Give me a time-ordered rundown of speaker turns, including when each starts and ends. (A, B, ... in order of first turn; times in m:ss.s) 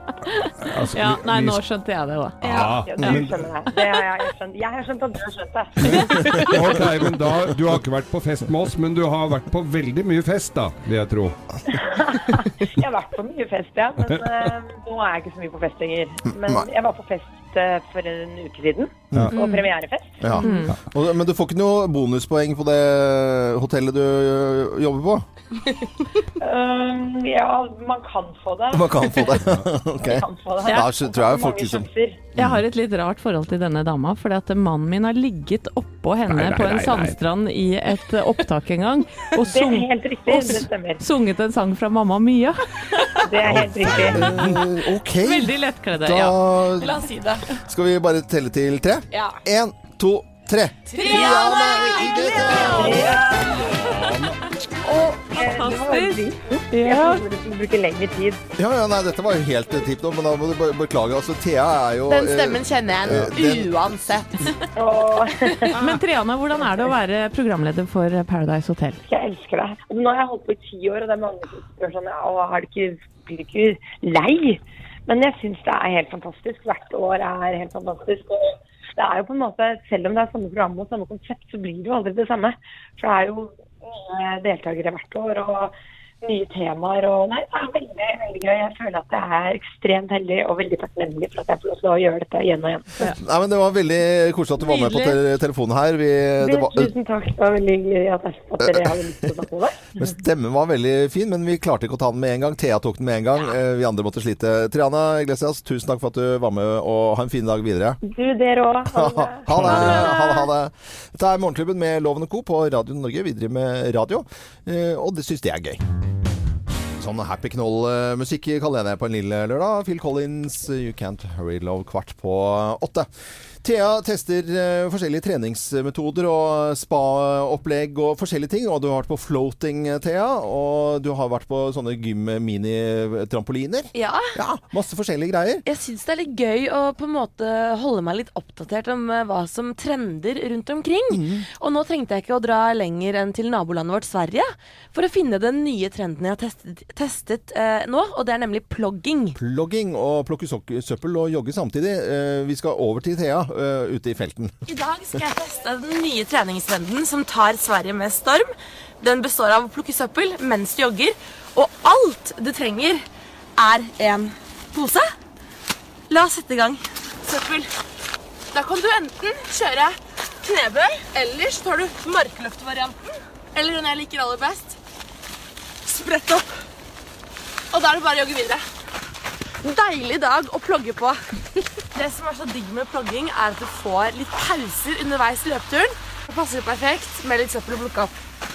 0:00.2-0:03.2 A
0:00.6-0:01.6 B
0:02.4-0:03.5 B
0:02.4-0:06.5 C
0:05.8-0:11.4 B
0:11.7-0:20.3 C
0:19.1-0:19.4 B
0:20.2-0:25.2 D
0:20.3-0:20.7 A
0:26.4-0:32.3 C
0:28.7-0:31.9 D
0:32.4-0:43.2 A
0:36.3-0:37.2 B
0:39.4-0:41.0 C
0:43.2-0:44.3 C
0:43.4-0:44.6 B
0:43.9-0:47.1 D
0:45.2-0:46.4 A
0:46.8-0:47.6 E
0:47.6-0:52.9 D
0:50.9-0:54.0 E
0:51.1-0:51.6 A
0:52.4-0:53.1 A
0:52.7-0:53.6 C
0:53.7-0:54.3 B
0:54.9-0:58.4 C
0:55.3-0:57.2 A
0:58.6-1:04.1 D
1:02.1-1:04.5 E
1:04.8-1:05.9 C
1:05.7-1:09.0 A
1:09.1-1:33.0 C
1:33.2-1:36.9 D
1:34.6-1:35.2 A
1:36.4-1:40.0 C
1:38.6-1:38.9 D
1:40.0-1:48.0 D
1:48.0-1:49.7 C
1:48.9-1:55.8 D
1:49.6-1:49.9 B
1:57.0-2:03.1 D
2:03.6-2:15.6 D
2:13.9-2:14.4 E
2:15.6-2:29.4 E
2:21.1-2:21.4 D
2:29.4-2:34.5 D
2:34.7-2:38.5 E
2:39.0-2:43.0 E
2:43.6-2:45.1 E
2:46.1-2:47.7 E
2:48.5-2:53.0 E
2:53.5-2:54.8 E
2:55.8-2:56.5 E
2:57.7-2:58.6 E
2:59.6-3:01.2 E
3:01.9-3:08.2 E